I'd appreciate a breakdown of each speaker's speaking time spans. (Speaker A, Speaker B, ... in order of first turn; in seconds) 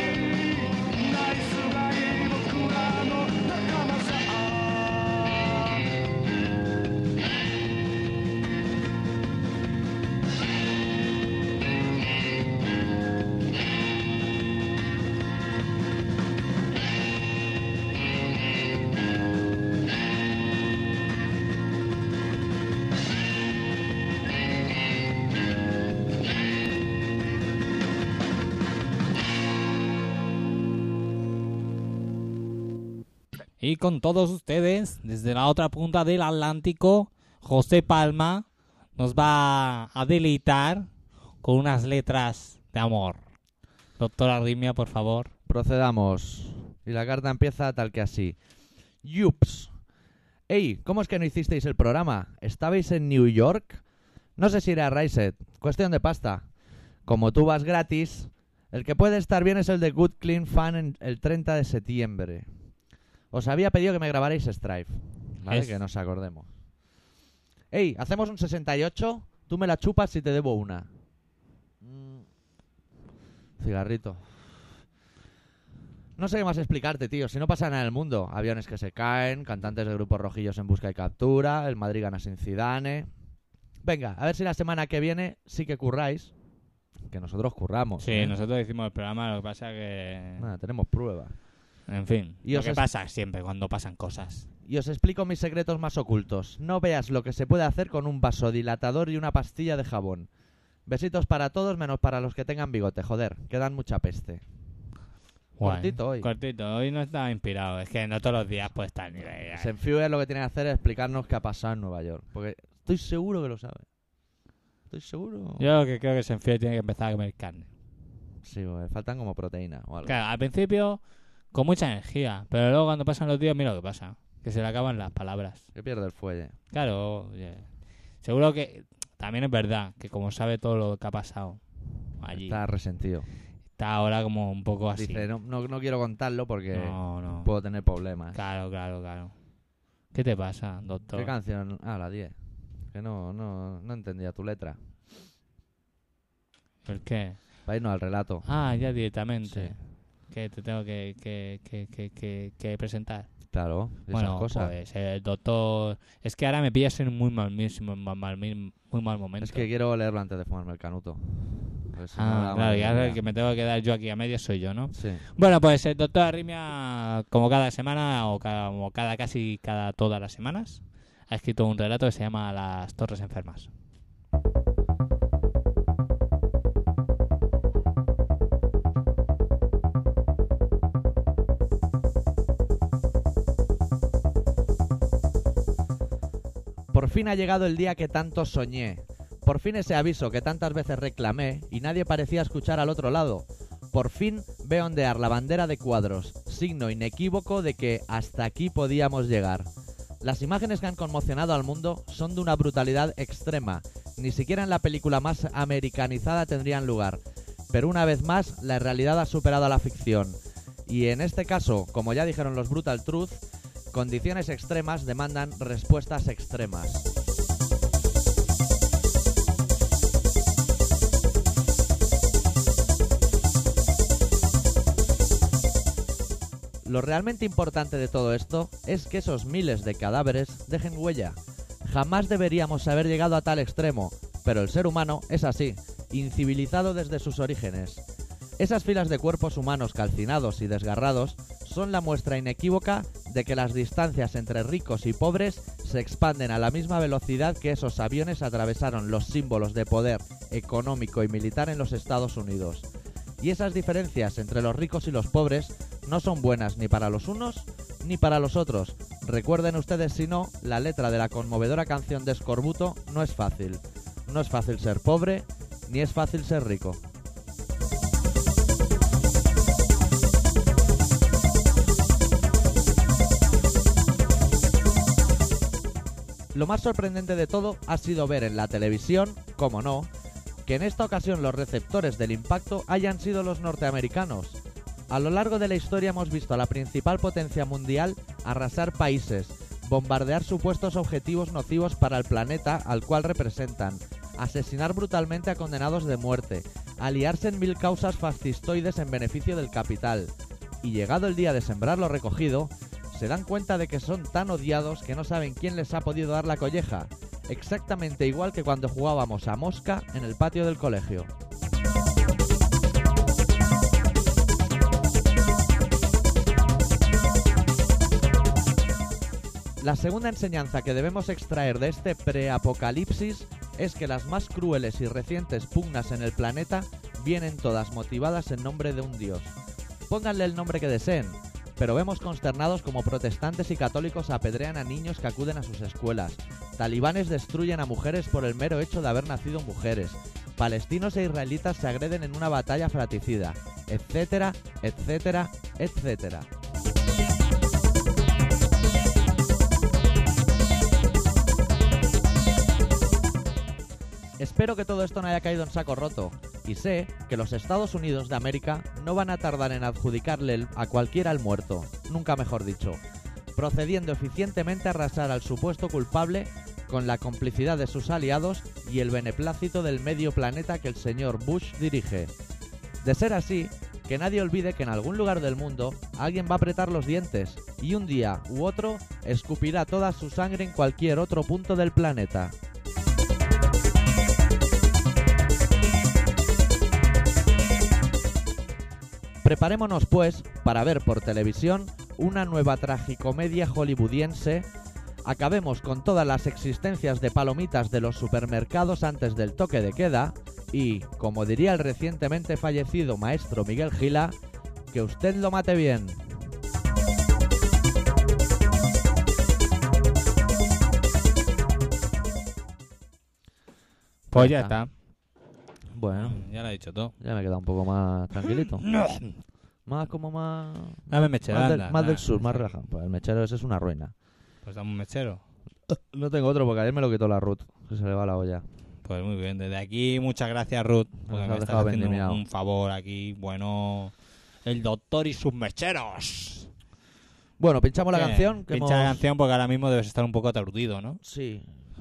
Speaker A: 0.9-4.6
Speaker B: 33.6-40.9, 41.4-43.2, 44.0-45.3, 65.4-65.8, 88.0-90.5, 91.9-94.5, 105.6-109.7, 115.6-117.7, 120.0-125.7, 126.7-131.6, 132.2-132.6, 133.7-135.3, 136.7-137.5, 138.3-139.3, 140.1-141.3, 146.8-147.6, 148.4-153.4, 154.1-159.7, 162.1-173.7, 414.3-414.9, 416.1-417.1, 418.4-419.4, 421.1-422.8, 424.6-425.4, 429.0-436.7, 438.1-441.2
Speaker C: 45.5-48.4, 49.0-49.7, 50.5-53.8, 54.4-56.5, 57.0-62.5, 63.3-66.5, 67.7-70.9, 71.8-72.2, 73.6-74.2, 76.2-83.1, 83.8-86.3, 87.1-88.3, 90.4-91.3, 92.4-92.8, 94.6-100.3, 100.8-104.4, 105.6-106.3, 109.5-113.9, 114.9-115.6, 118.4-120.1, 125.7-126.5, 132.3-133.3, 134.9-138.4, 141.1-142.3, 142.9-144.8, 147.7-148.5, 149.4-149.8, 153.5-154.7, 159.4-163.2, 164.9-165.2, 186.9-199.7, 200.2-217.0, 226.8-238.0, 238.6-252.8, 253.4-267.0, 276.5-280.1, 280.6-284.6, 285.1-300.3, 300.8-311.3, 319.8-329.5, 330.1-346.5, 354.4-363.0, 363.6-372.3, 373.0-382.5, 389.4-394.6, 395.2-404.3, 404.9-406.4, 414.3-414.8, 415.9-416.5, 417.2-418.9, 419.9-424.1, 425.9-428.6, 431.3-432.4, 437.6-439.2, 441.2-441.7